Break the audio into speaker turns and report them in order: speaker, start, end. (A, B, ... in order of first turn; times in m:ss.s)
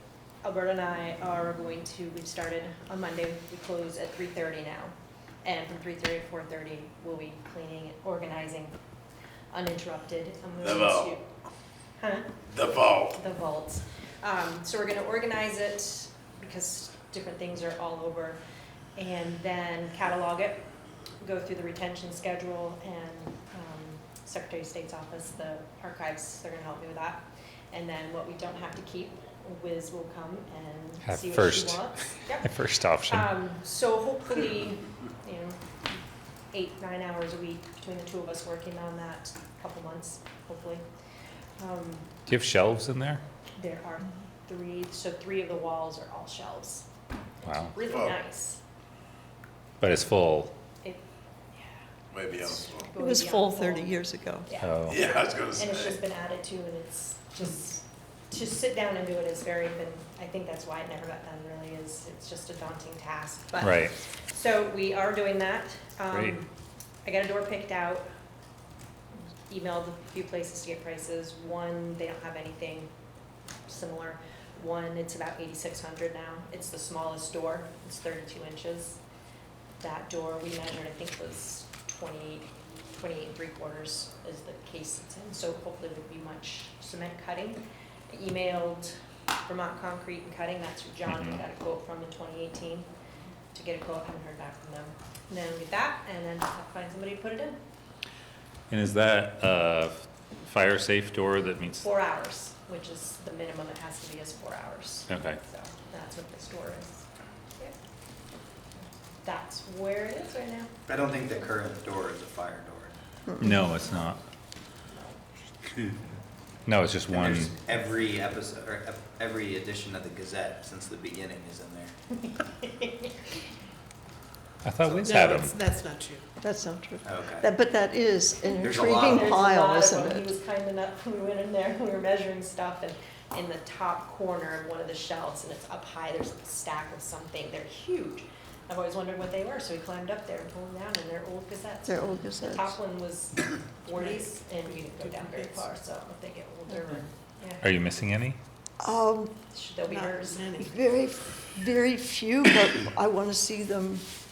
0:00.4-0:08.7 A
0:09.5-0:11.3 A
0:10.6-0:11.2 B
0:12.0-0:12.4 A
0:12.5-0:13.2 B
0:13.1-0:18.4 A
0:19.0-0:20.6 A
0:21.2-0:32.5 A
0:31.0-0:33.3 C
0:33.1-0:35.6 A
0:36.5-0:40.8 A
0:41.6-0:42.2 A
0:42.3-0:43.2 C
0:43.6-0:46.9 A
0:47.4-0:47.8 C
0:47.7-0:48.6 A
0:47.8-0:48.2 B
0:49.8-0:50.5 C
0:52.1-0:52.9 B
0:52.4-0:53.9 A
0:53.0-0:54.5 D
0:54.5-1:06.5 A
0:54.6-0:55.1 C
0:54.9-0:56.0 B
1:03.6-1:03.9 C
1:06.1-1:06.4 C
1:07.0-1:08.1 A
1:09.5-1:12.9 A
1:13.6-1:19.0 A
1:19.8-1:28.9 A
1:29.4-1:32.9 A
1:31.1-1:31.4 C
1:33.5-1:37.6 A
1:38.7-1:41.9 C
1:41.8-1:47.1 A
1:45.1-1:45.4 C
1:49.2-1:50.7 A
1:50.9-1:53.0 E
1:53.4-1:54.2 C
1:54.9-1:55.2 A
1:56.6-1:57.5 C
1:57.1-2:01.9 E
2:02.2-2:03.1 A
2:04.6-2:05.5 C
2:05.0-2:06.3 F
2:06.4-2:10.3 D
2:07.0-2:07.5 E
2:08.6-2:09.4 E
2:09.1-2:27.6 A
2:21.8-2:22.8 D
2:24.0-2:25.7 F
2:27.6-2:28.4 C
2:28.8-2:29.4 D
2:29.5-2:30.5 A
2:29.9-2:30.7 F
2:30.6-2:34.0 D